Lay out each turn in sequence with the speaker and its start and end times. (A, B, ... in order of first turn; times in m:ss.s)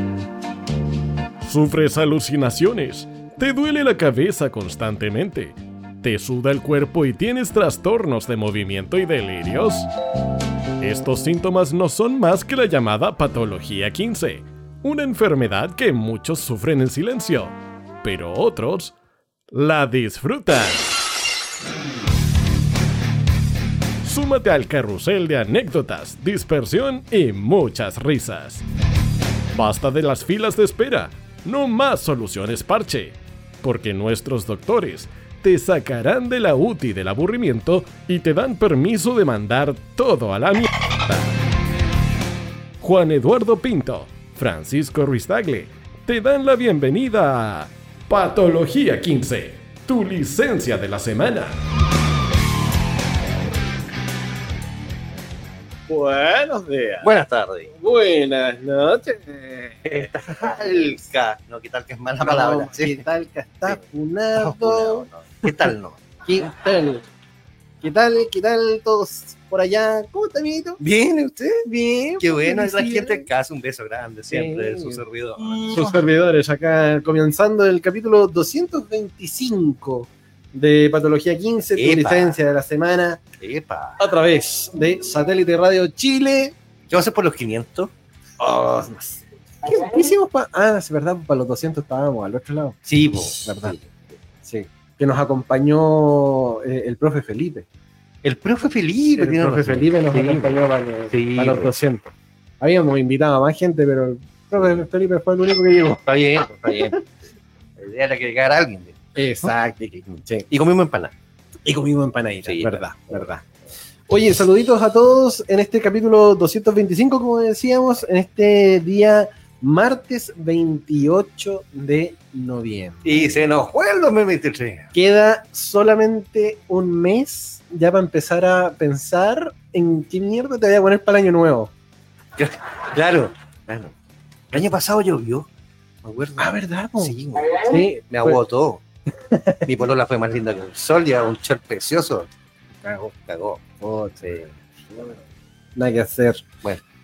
0:01.4-0:09.9 A
0:10.8-0:18.9 A
0:19.5-0:21.0 A
0:24.0-0:28.6 A
0:29.5-0:41.3 A
0:42.8-0:51.6 A
0:55.9-0:57.1 B
0:57.0-0:57.7 C
0:57.7-1:00.0 B
0:59.8-1:03.0 C
1:02.2-1:05.5 B
1:04.4-1:06.0 C
1:06.3-1:07.0 B
1:07.8-1:10.8 B
1:10.8-1:11.7 C
1:11.6-1:13.3 B
1:12.2-1:16.0 C
1:14.3-1:15.0 B
1:15.7-1:23.2 B
1:21.8-1:22.4 C
1:23.4-1:24.0 C
1:24.0-1:26.6 B
1:26.9-1:27.9 C
1:28.4-1:32.8 B
1:32.9-1:33.9 C
1:33.4-1:33.8 B
1:34.4-1:37.7 B
1:38.2-1:40.6 C
1:39.2-1:42.1 B
1:41.1-1:41.7 C
1:42.6-1:46.0 B
1:46.0-1:47.0 C
1:46.7-1:46.9 B
1:47.8-1:51.1 C
1:49.2-1:50.5 B
1:51.6-1:53.4 B
1:52.4-1:52.9 C
1:54.1-2:03.4 B
2:03.0-2:04.9 C
2:04.9-2:11.7 B
2:12.4-2:13.9 C
2:14.5-2:15.5 C
2:16.0-2:18.8 C
2:16.4-2:18.4 B
2:19.3-2:19.6 B
2:19.6-2:22.3 C
2:22.8-2:25.1 C
2:25.8-2:26.4 B